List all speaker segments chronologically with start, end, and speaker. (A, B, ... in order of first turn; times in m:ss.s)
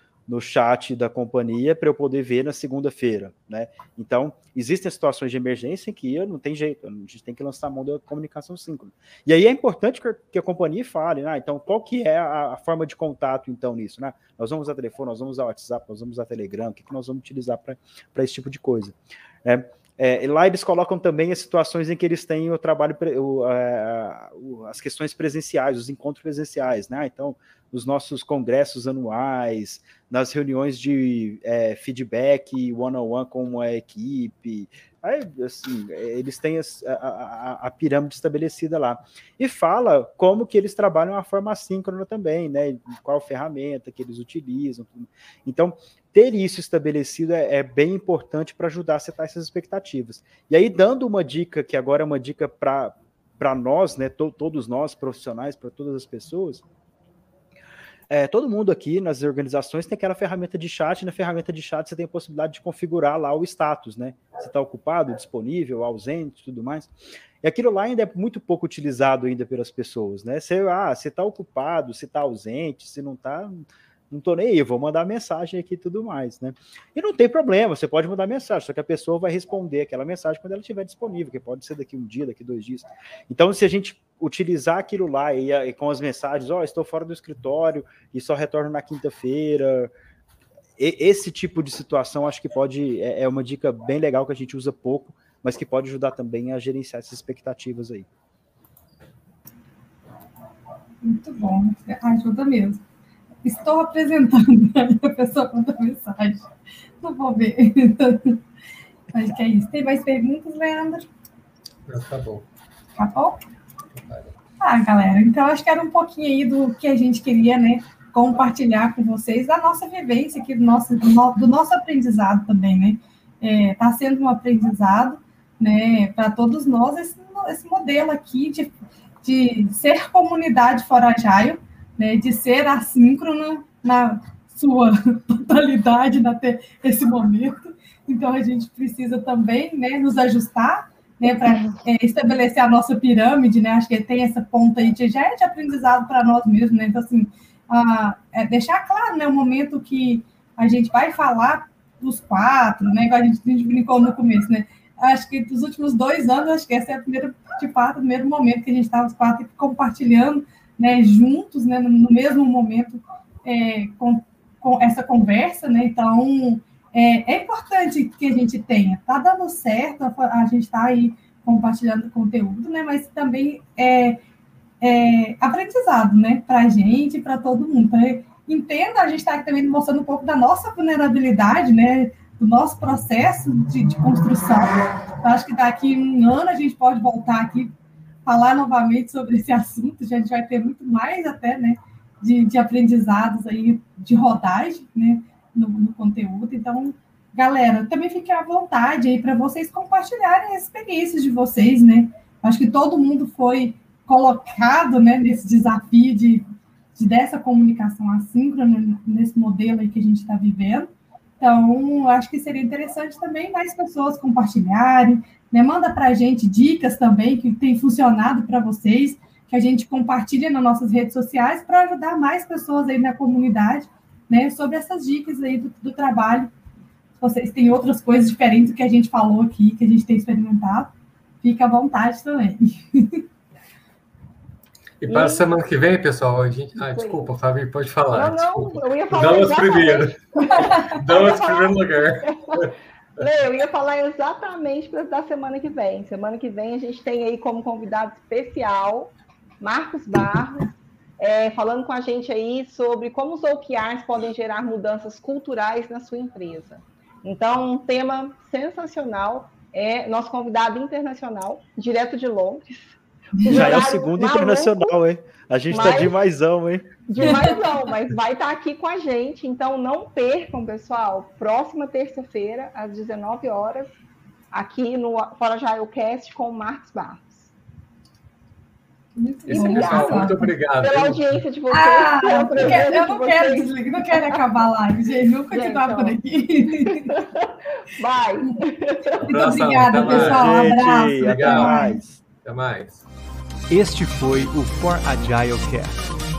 0:00.3-0:56.6 A
0:58.1-1:29.9 A
1:30.8-1:38.1 A
1:41.0-1:42.8 B
1:43.4-1:48.4 B
1:49.1-1:51.1 B
1:51.9-1:52.4 C
1:53.0-1:53.4 B
1:54.0-1:54.3 C
1:54.6-2:08.7 B
2:09.2-2:54.2 B
2:54.8-3:07.7 B
3:08.2-3:30.9 B
3:31.4-3:46.5 B
3:47.2-3:53.2 B
3:55.0-4:02.7 C
3:55.1-3:55.4 D
3:56.8-3:57.2 D
3:58.1-4:24.9 D
4:00.5-4:01.0 B
4:23.4-4:23.7 B
4:23.5-4:27.0 A
4:25.7-4:26.2 D
4:27.1-4:34.0 D
4:27.2-4:27.7 B
4:34.5-4:37.5 D
4:39.2-4:40.5 B
4:39.5-4:41.4 C
4:39.5-4:44.4 D
4:41.7-4:47.1 B
4:45.5-4:46.2 D
4:46.9-4:49.3 D
4:49.2-4:52.0 B
4:49.2-4:53.0 C
4:50.0-4:52.2 A
4:53.7-4:56.1 E